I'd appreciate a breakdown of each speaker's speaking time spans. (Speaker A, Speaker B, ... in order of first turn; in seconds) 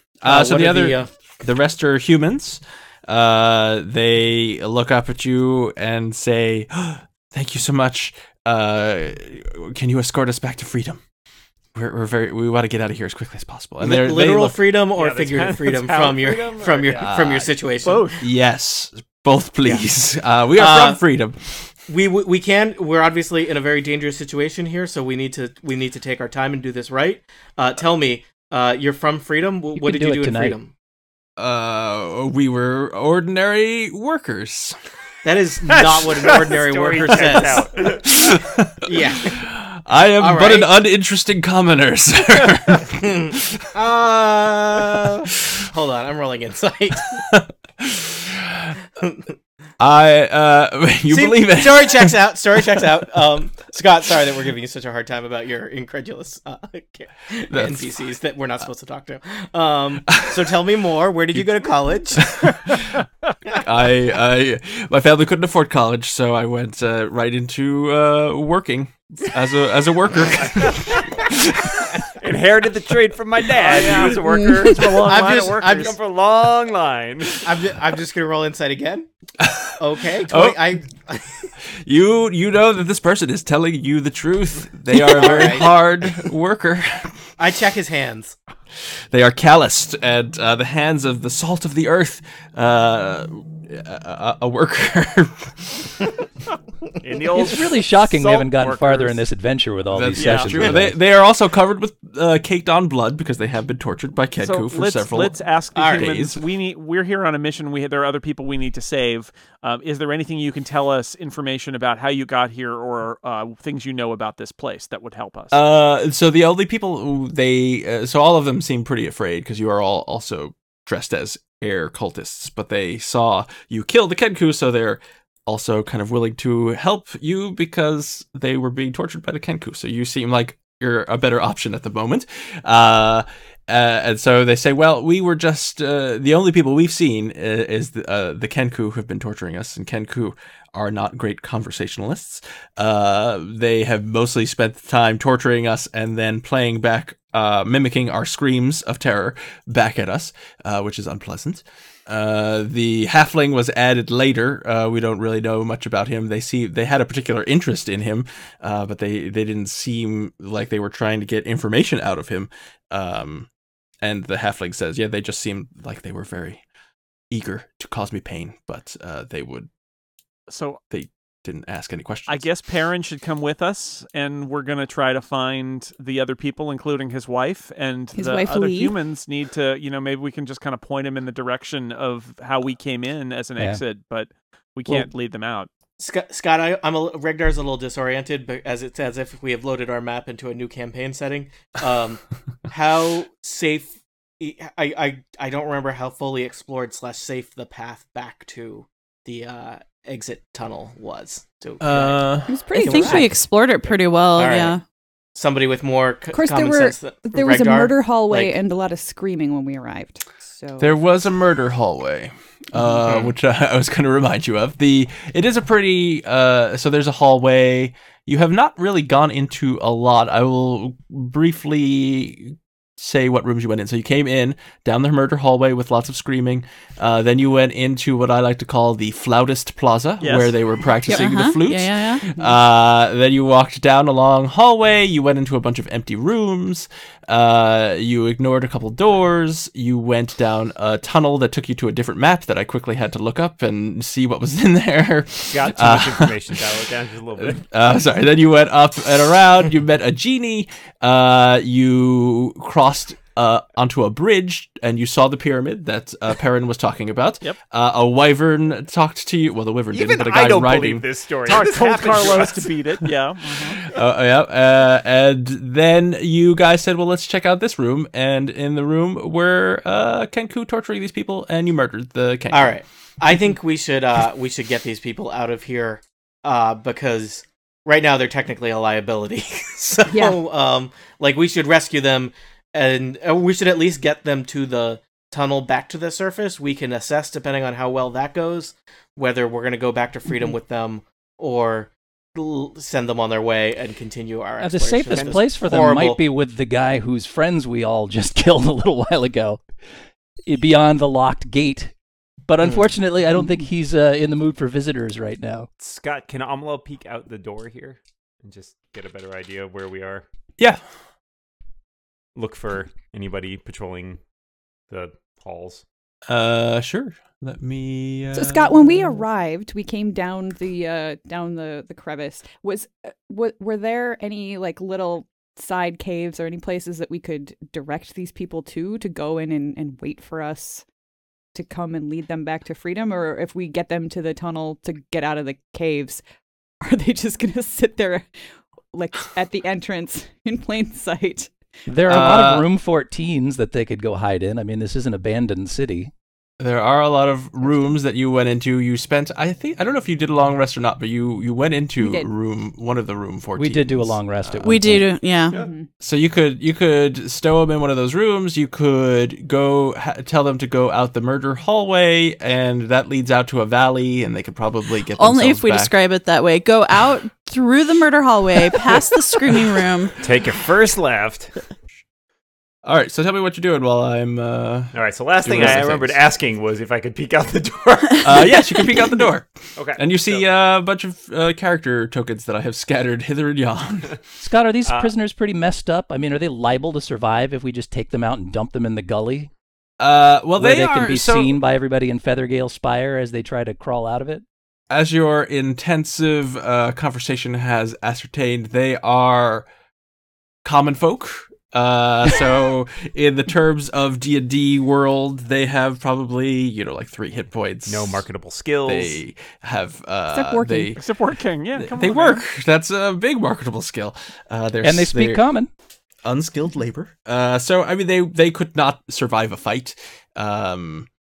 Speaker A: 0.2-11.0, 11.7-14.6, 17.0-17.5, 18.2-21.7, 31.4-34.8, 38.0-43.7, 47.1-48.8, 49.8-52.1, 57.5-57.9, 60.1-60.5, 62.2-62.9, 63.5-71.9, 79.4-80.7, 81.6-87.2, 89.1-96.0, 99.9-105.3, 105.9-106.4, 115.5-163.5, 164.0-166.6, 167.3-169.7, 170.9-172.5, 201.8-202.6, 210.8-246.7, 247.4-261.1, 263.7-272.8, 316.3-319.2, 342.1-342.7, 346.6-354.8, 356.0-365.9, 372.9-376.2, 378.2-384.2, 390.0-391.6, 394.9-399.7, 400.6-408.3, 408.9-411.1, 411.8-415.4, 416.2-421.1
Speaker B: 0.2-1.1, 13.8-18.2, 20.6-21.0, 21.9-30.7, 35.2-38.0, 38.9-39.4, 40.2-40.7, 43.0-47.2, 51.1-62.6, 74.9-76.0, 77.4-79.1, 79.8-81.5, 85.0-85.7, 87.4-88.4, 105.8-106.1, 186.0-203.4, 204.4-204.8, 205.3-208.6, 213.0-213.3, 272.5-296.2, 302.6-302.9
Speaker C: 14.9-17.1, 35.7-38.0, 70.4-71.3, 72.0-77.5, 97.0-99.2, 245.5-247.6, 259.9-262.8, 295.1-295.4, 305.8-310.2, 312.4-314.2, 314.9-315.8, 370.2-371.6, 374.9-378.6, 379.8-380.5, 384.9-385.1, 407.9-409.2
Speaker D: 17.9-18.2, 73.6-75.8, 100.1-100.7, 104.4-115.6, 170.5-170.8, 172.3-185.7, 230.2-230.6, 261.5-263.8, 410.9-412.4
Speaker E: 29.8-30.6, 97.3-101.0, 294.6-299.6, 300.5-301.9, 302.5-305.7, 341.9-346.1, 353.6-355.1, 384.4-389.5, 390.6-394.4, 414.8-415.7
Speaker F: 178.2-178.9, 202.5-203.3, 206.3-211.0, 280.1-280.4, 318.3-330.9, 331.6-336.2, 336.8-338.3, 338.9-341.5, 342.1-342.4, 352.0-352.3, 355.5-355.9, 410.3-411.0
Speaker G: 202.7-204.8, 231.1-232.3, 354.6-355.6, 365.2-370.2